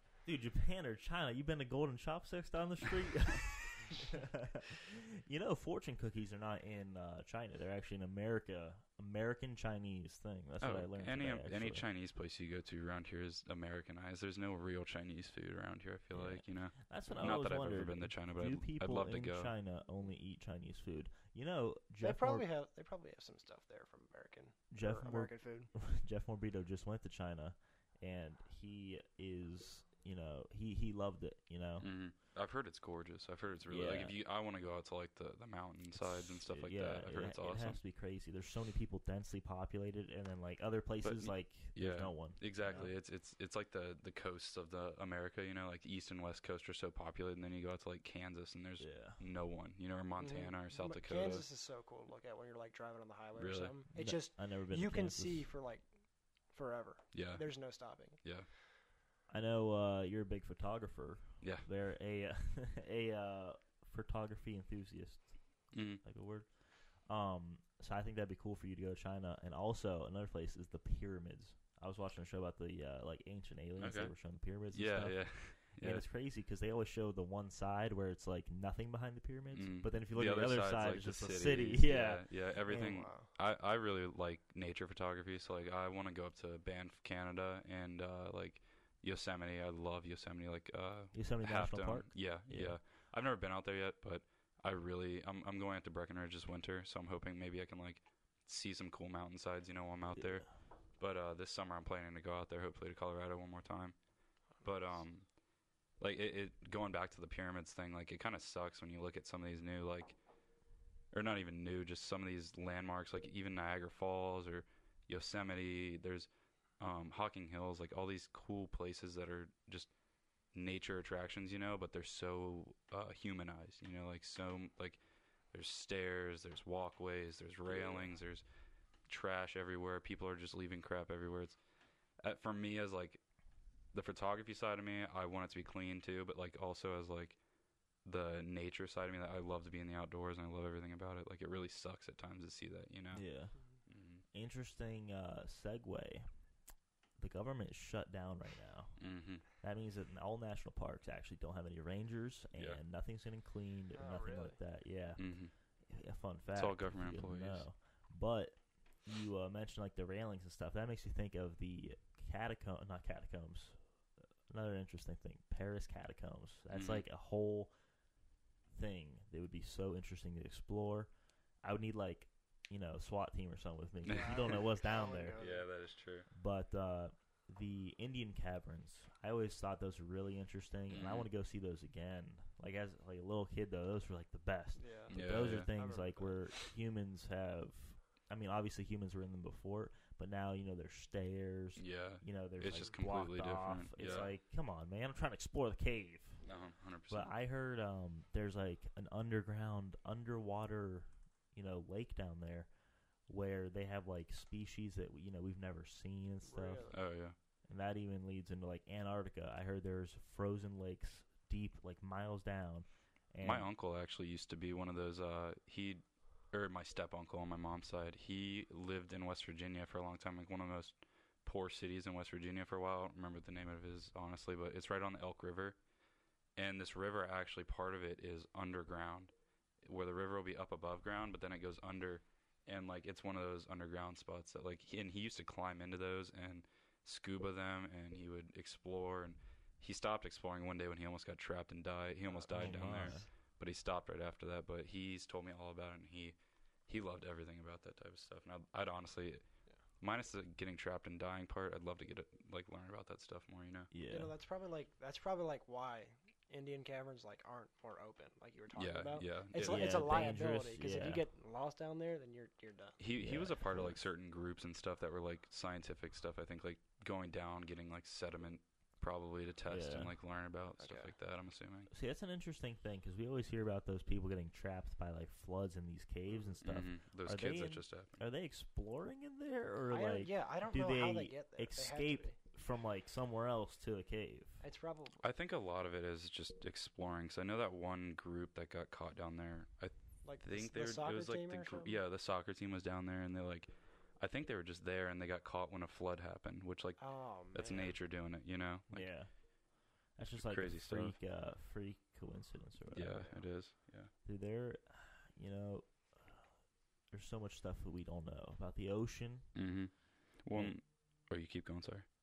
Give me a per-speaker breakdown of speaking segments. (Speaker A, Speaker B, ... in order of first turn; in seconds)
Speaker A: 0.2-11.9, 16.1-22.5, 24.7-31.9, 33.7-34.2, 35.9-43.0, 48.8-49.2, 53.9-55.5, 59.3-83.0, 91.1-92.8, 100.2-100.4, 143.1-143.6, 144.3-146.3, 147.2-155.3, 155.9-163.8, 164.5-167.7, 168.7-171.1, 171.6-175.4, 176.3-196.5, 197.1-202.7, 203.3-206.8, 207.7-213.7, 242.5-243.3, 253.9-254.3, 259.6-261.2, 263.2-264.0, 269.7-270.1, 271.9-284.6, 298.9-299.3, 300.1-303.3, 304.2-306.5, 307.1-309.6, 310.5-310.8
Speaker B: 10.6-19.5, 31.8-37.8, 41.0-51.5, 53.4-53.7, 57.1-57.5, 58.2-58.5, 61.4-61.7, 65.7-66.0, 73.8-74.2, 74.7-76.1, 79.5-104.0, 104.6-105.3, 106.0-110.2, 111.1-119.9, 120.5-125.0, 125.5-128.4, 129.1-131.6, 132.2-133.2, 133.9-137.4, 138.1-143.2, 143.9-144.2, 149.0-149.4, 152.6-152.8, 155.2-155.5, 156.6-157.7, 166.7-167.1, 174.1-174.3, 175.4-176.3, 180.9-181.3, 185.1-185.7, 191.8-194.3, 196.4-197.3, 206.9-207.4, 213.4-225.8, 226.6-246.4, 246.9-249.4, 250.0-253.9, 258.7-260.0, 263.0-271.9, 276.6-278.1, 285.2-297.0, 297.5-299.1, 300.3-301.2, 302.9-304.1, 309.5-312.1
Speaker C: 22.0-25.7, 50.2-55.9, 56.5-58.3, 82.7-83.3, 104.6-105.0, 127.7-128.1, 153.9-154.6, 174.1-175.7, 184.8-186.5, 206.5-207.0, 254.1-263.0, 270.8-271.1, 279.9-282.4, 284.6-285.2, 290.2-292.0, 297.0-298.0, 303.2-303.4